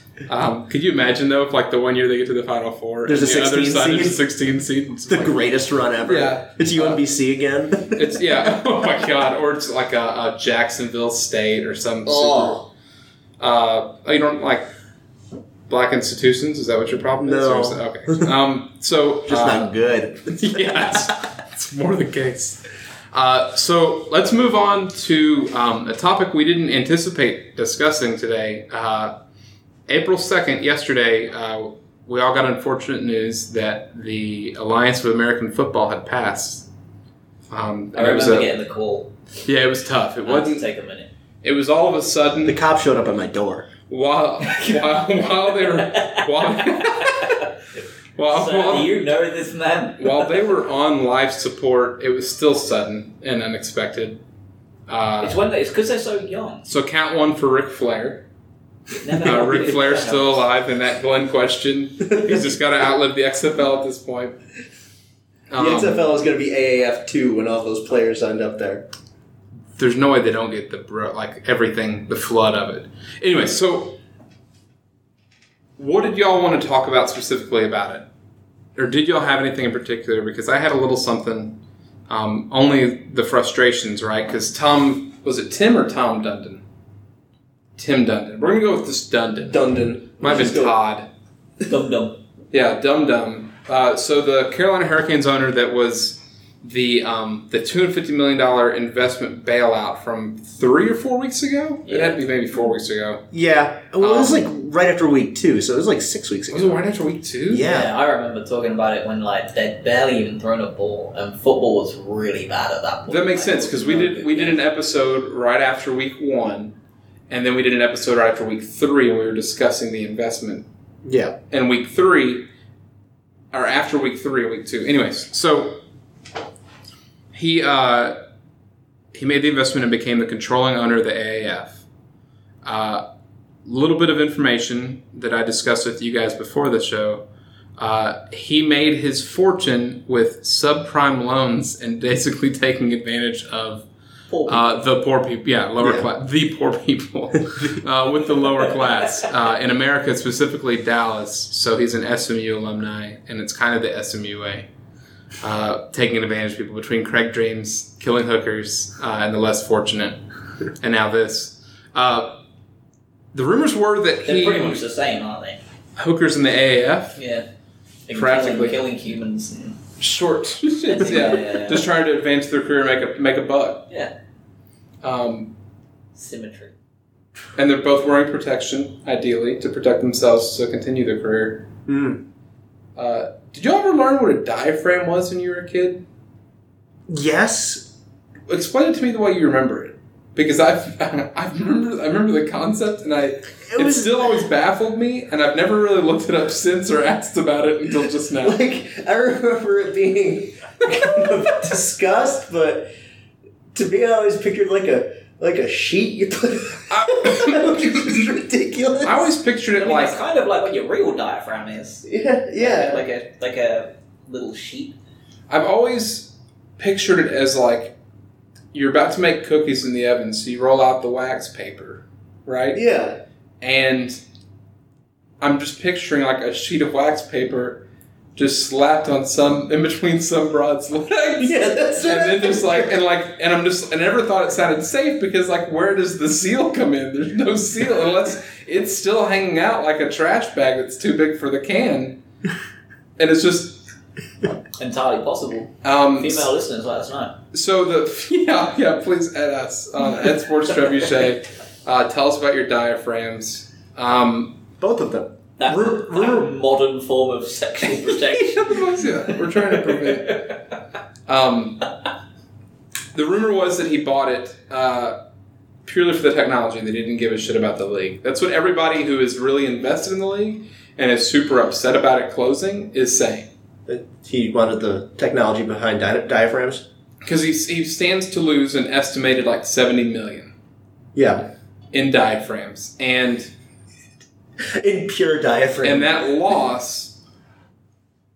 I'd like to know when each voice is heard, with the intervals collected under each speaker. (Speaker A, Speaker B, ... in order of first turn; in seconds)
Speaker A: 0.3-5.4, 6.0-7.0, 7.9-12.7, 13.4-14.7, 15.7-19.7, 20.3-22.6, 23.1-29.2, 29.9-36.7, 37.5-38.5, 39.5-40.7, 41.4-42.6, 43.9-47.4, 48.2-49.0, 50.0-54.2, 54.9-55.4, 56.7-58.2, 59.2-64.4, 65.5-66.0, 69.8-74.0, 75.8-78.0, 78.8-86.6, 87.8-91.1, 92.5-103.2, 104.0-104.5, 106.5-107.7, 113.1-116.8, 117.3-120.7, 121.5-122.5, 123.5-125.8, 127.3-128.2, 129.1-131.8, 132.6-133.0, 133.7-137.2, 137.8-143.9, 144.5-154.7, 155.4-160.2, 160.8-162.4, 163.3-164.8, 166.0-167.2, 168.1-168.8, 170.0-173.9, 175.0-175.5, 177.6-181.7, 183.0-186.0, 188.5-198.6, 206.9-208.2, 209.0-210.2, 215.5-217.9, 218.7-222.8, 223.6-224.2, 225.4-227.8, 228.3-242.2, 243.2-243.9, 245.8-246.5, 247.5-254.6, 255.7-256.5, 258.0-260.6, 261.3-261.9, 263.1-265.2, 265.9-273.5, 277.2-280.5, 281.9-283.5, 285.8-287.2
Speaker B: 3.1-4.2, 5.1-8.2, 12.1-12.7, 17.2-18.3, 19.3-20.9, 42.5-43.7, 65.6-68.9, 89.5-90.8, 103.3-106.8, 107.5-107.9, 121.0-121.3, 145.8-146.1, 181.9-182.2, 187.1-187.9, 193.7-194.4, 198.4-202.9, 203.7-209.3, 212.1-213.0, 222.7-223.2, 231.4-233.0, 254.8-255.3, 273.9-276.9, 281.1-281.5, 284.6-286.2
Speaker C: 37.9-39.1, 40.2-41.1, 44.4-47.5, 48.3-50.4, 55.2-56.7, 58.9-60.4, 91.7-92.2, 101.9-102.2, 107.6-114.6, 144.3-144.7, 164.2-165.6, 167.2-167.5, 168.1-169.8, 170.9-171.9, 176.2-176.7, 209.7-215.0, 244.8-247.4, 255.6-260.3